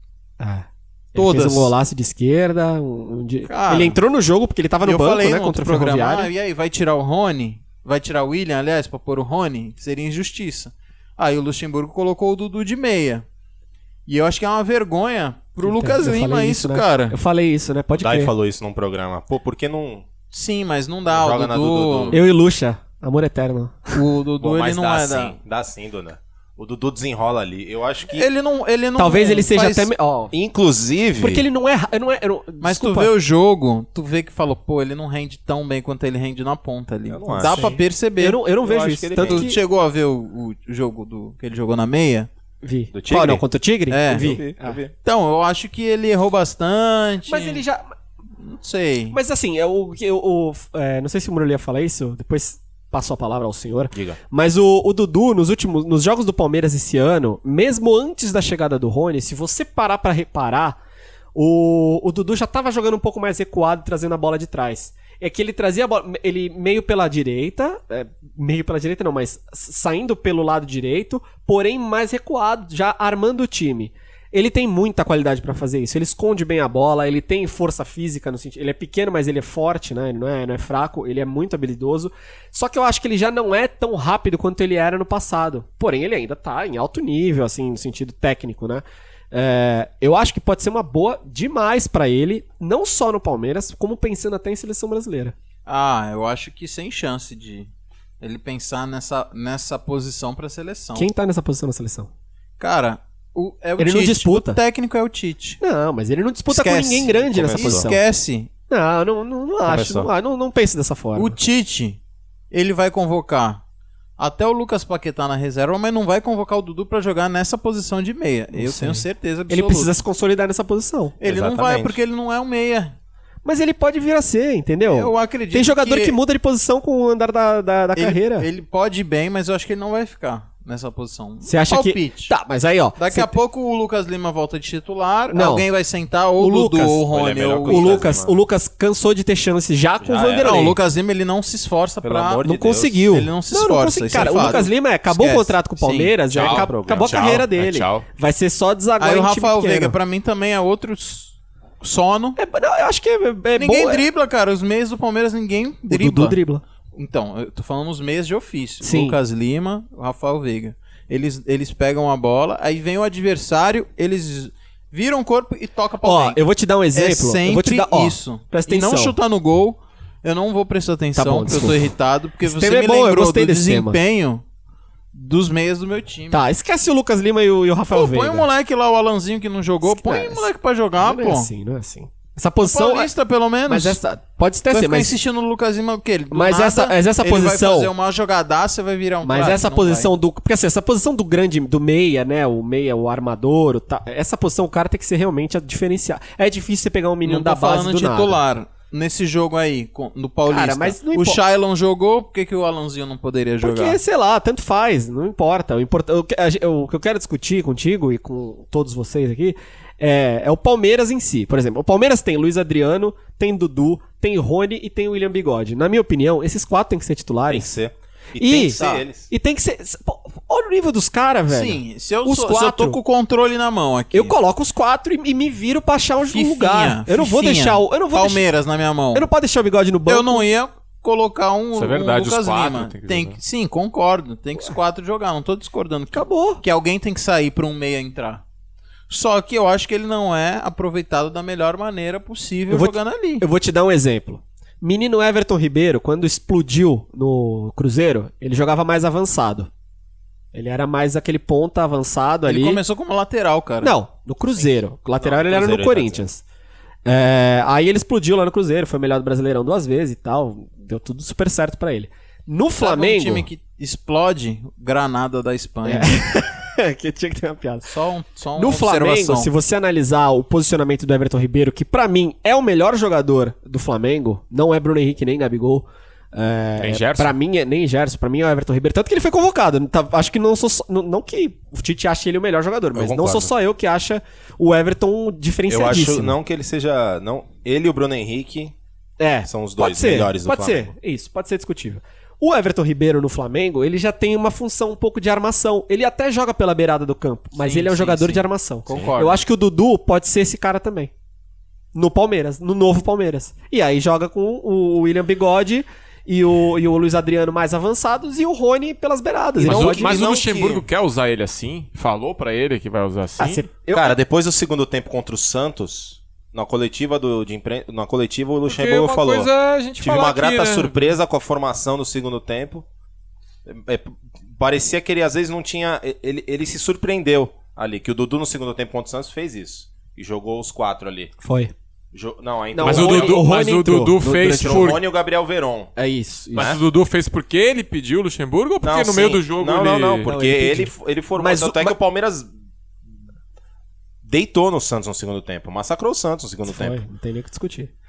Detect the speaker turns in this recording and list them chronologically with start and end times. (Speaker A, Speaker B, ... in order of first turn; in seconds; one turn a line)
Speaker A: 0.4-6.3
Speaker B: 1.2-1.7
Speaker B: 3.5-4.0
Speaker B: 4.8-13.2
Speaker B: 14.1-17.1
Speaker A: 15.6-18.3
Speaker C: 18.0-20.1
Speaker B: 20.3-22.2
Speaker C: 21.1-22.2
Speaker A: 22.1-24.0
Speaker B: 23.9-25.4
Speaker C: 24.4-28.3
Speaker B: 28.1-29.9
Speaker A: 29.0-30.3
Speaker C: 30.3-31.4
Speaker A: 31.2-33.1
Speaker B: 32.6-38.4
Speaker C: 37.1-37.8
Speaker A: 37.3-39.6
Speaker C: 38.6-39.5
Speaker B: 39.2-42.3
Speaker A: 42.6-44.8
Speaker C: 42.9-43.4
Speaker B: 43.9-44.4
Speaker C: 44.1-44.9
Speaker B: 45.0-47.6
Speaker A: 47.3-47.9
Speaker B: 48.4-49.2
Speaker A: 49.1-60.8
Speaker C: 53.9-54.2
Speaker A: 61.4-95.3
Speaker B: 95.7-101.1
Speaker A: 101.0-102.1
Speaker B: 102.6-105.6
Speaker A: 103.8-104.6
Speaker A: 105.6-108.0
Speaker B: 106.5-108.5
Speaker C: 107.3-107.9
Speaker A: 108.7-111.4
Speaker C: 109.7-110.1
Speaker B: 111.2-112.0
Speaker B: 112.5-113.6
Speaker B: 114.2-120.0
Speaker A: 118.5-121.2
Speaker B: 121.2-123.0
Speaker C: 121.2-122.0
Speaker A: 123.5-128.5
Speaker B: 124.9-126.2
Speaker B: 128.0-132.3
Speaker A: 131.4-133.4
Speaker B: 133.0-138.0
Speaker A: 135.3-135.7
Speaker A: 136.4-137.0
Speaker C: 137.1-138.4
Speaker A: 137.7-140.8
Speaker C: 140.0-140.7
Speaker B: 140.4-142.4
Speaker C: 142.0-143.0
Speaker A: 142.4-150.0
Speaker B: 143.1-146.6
Speaker C: 144.2-144.6
Speaker D: 146.3-148.1
Speaker C: 146.4-147.1
Speaker B: 149.0-152.4
Speaker A: 152.4-154.1
Speaker B: 153.6-156.4
Speaker A: 155.9-156.6
Speaker B: 156.9-166.4
Speaker A: 158.8-159.2
Speaker A: 166.0-169.2
Speaker B: 166.9-174.4
Speaker A: 171.2-171.9
Speaker A: 172.4-174.0
Speaker B: 175.1-176.4
Speaker A: 176.3-178.5
Speaker B: 177.9-181.5
Speaker A: 179.8-180.5
Speaker A: 181.0-183.1
Speaker B: 182.6-184.0
Speaker A: 183.7-185.2
Speaker B: 184.7-190.1
Speaker A: 186.3-187.9
Speaker A: 189.2-198.4
Speaker B: 197.2-204.0
Speaker A: 200.5-201.4
Speaker A: 203.6-217.7
Speaker C: 217.5-219.3
Speaker A: 218.4-223.0
Speaker B: 218.7-219.1
Speaker B: 221.5-224.4
Speaker A: 224.1-228.5
Speaker B: 226.3-229.3
Speaker A: 229.1-230.5
Speaker B: 230.1-238.4
Speaker D: 231.8-233.4
Speaker A: 236.1-236.6
Speaker B: 239.1-243.4
Speaker A: 242.7-249.7
Speaker A: 250.5-252.8
Speaker B: 252.5-253.9
Speaker A: 253.8-256.4
Speaker C: 255.2-256.2
Speaker A: 257.1-263.5
Speaker B: 262.8-266.1
Speaker A: 265.9-267.9
Speaker B: 267.8-269.5
Speaker A: 268.6-286.4
Speaker D: 276.8-277.4
Speaker C: 282.9-283.5
Speaker C: 285.7-288.7
Speaker A: 289.2-301.1
Speaker C: 289.5-290.9
Speaker B: 297.6-299.4
Speaker A: 301.9-310.2
Speaker C: 309.6-310.9
Speaker D: 309.6-313.6
Speaker A: 313.4-314.1
Speaker C: 313.9-319.5
Speaker D: 318.7-321.1
Speaker C: 320.0-322.9
Speaker C: 323.7-331.3
Speaker A: 331.4-331.7
Speaker C: 332.1-333.4
Speaker A: 332.7-335.0
Speaker D: 332.8-335.0
Speaker C: 334.6-335.9
Speaker A: 336.0-336.8
Speaker C: 336.6-336.8
Speaker D: 336.6-340.3
Speaker C: 338.8-342.5
Speaker A: 340.2-342.0
Speaker C: 344.2-347.0
Speaker A: 346.7-347.9